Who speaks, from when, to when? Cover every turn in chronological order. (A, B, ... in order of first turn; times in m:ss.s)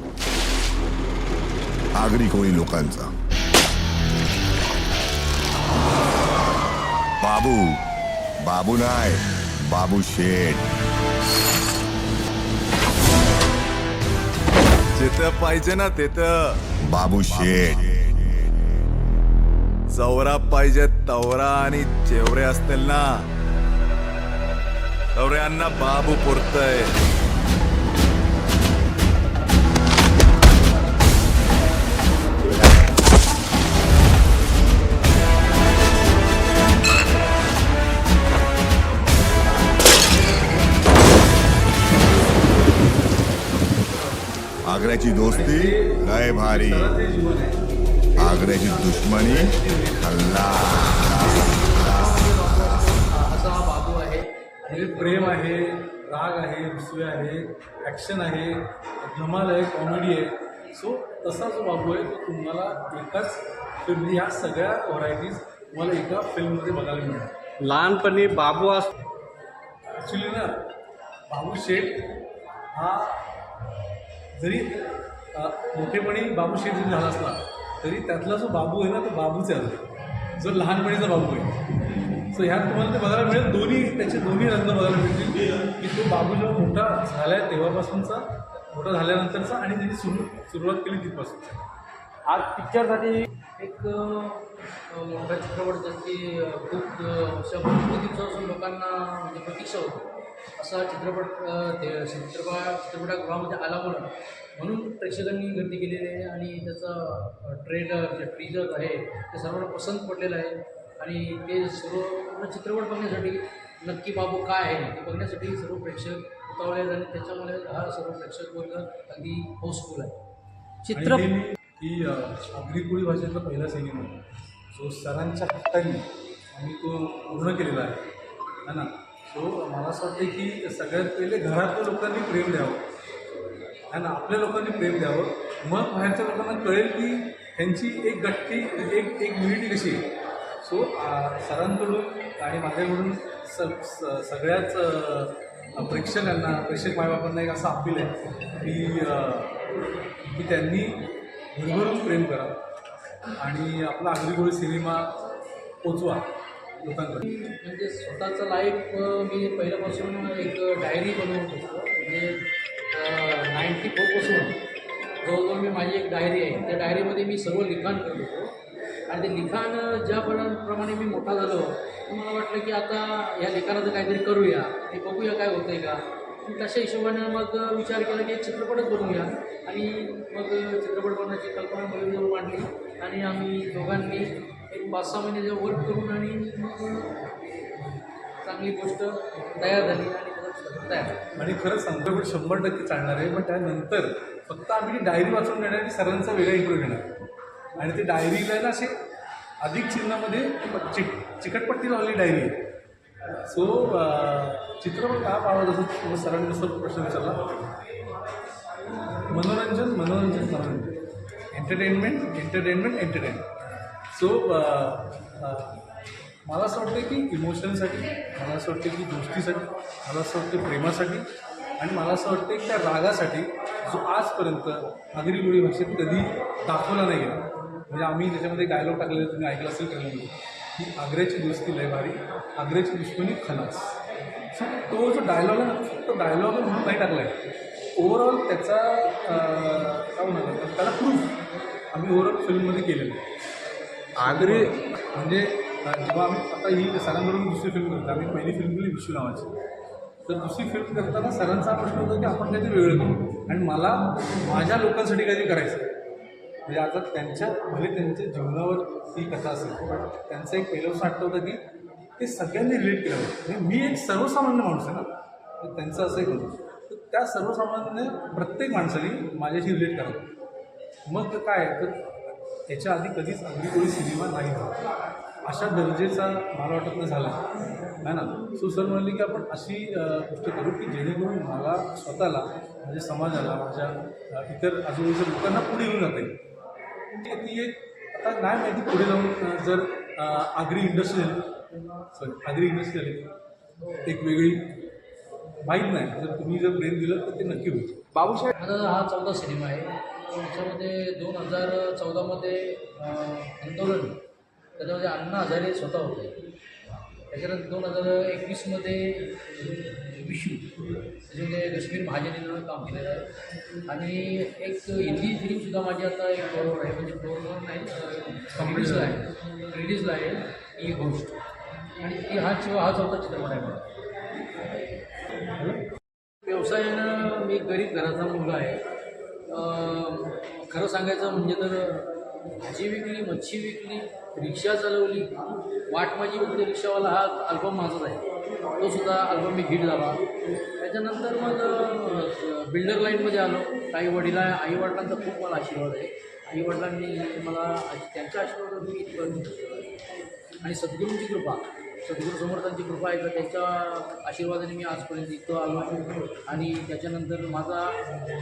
0:01.9-0:03.1 A
0:07.2-0:07.8 A
0:08.4-0:10.7 A
0:15.0-0:16.5 B
0:16.8-0:18.0 A
0:20.0-0:23.2 B
0:25.2-0:26.9 B
0:44.6-0:46.9 A
0:45.3-0:47.6 C
0:48.2-0:50.4 C
0:48.2-0:52.1 A
0:51.3-0:55.6 D
0:54.7-1:07.5 C
1:07.6-1:08.9 E
1:10.0-1:10.5 C
1:11.3-1:12.2 C
1:12.7-1:13.3 C
1:14.4-1:19.8 C
1:20.4-1:21.6 C
1:22.3-1:31.6 C
1:32.3-1:33.2 E
1:33.6-2:00.2 D
2:00.9-2:01.2 E
2:00.9-2:08.0 C
2:08.6-2:12.8 C
2:13.9-2:20.1 C
2:20.6-2:29.6 C
2:30.2-2:31.0 C
2:31.5-2:32.6 C
2:33.4-2:35.2 C
2:35.8-2:36.3 C
2:36.8-2:37.2 C
2:37.2-2:44.6 D
2:45.2-2:48.5 D
2:49.1-3:07.2 D
3:08.4-3:11.2 D
3:11.4-3:17.1 C
3:17.8-3:19.0 C
3:19.6-3:22.7 C
3:23.4-3:27.6 C
3:29.3-3:31.0 C
3:31.5-3:33.5 C
3:34.1-3:35.8 C
3:36.4-3:41.2 C
3:41.8-3:54.0 C
3:54.5-3:57.4 C
3:58.0-4:01.4 C
4:01.9-4:03.2 C
4:04.2-4:09.5 C
4:10.2-4:15.9 C
4:16.7-4:21.6 C
4:22.2-4:30.3 C
4:31.1-4:32.0 C
4:32.7-4:34.8 C
4:35.4-4:37.4 C
4:38.0-4:46.4 C
4:47.2-4:51.5 C
4:52.1-4:53.3 C
4:54.0-4:54.8 C
4:55.6-4:58.4 C
4:58.5-5:04.2 D
5:04.8-5:06.4 D
5:07.3-5:13.3 D
5:13.8-5:21.4 D
5:18.6-5:19.2 C
5:22.0-5:23.8 D
5:26.4-5:28.8 D
5:29.5-5:35.4 D
5:35.9-5:40.2 D
5:40.8-5:49.9 D
5:50.6-5:58.0 D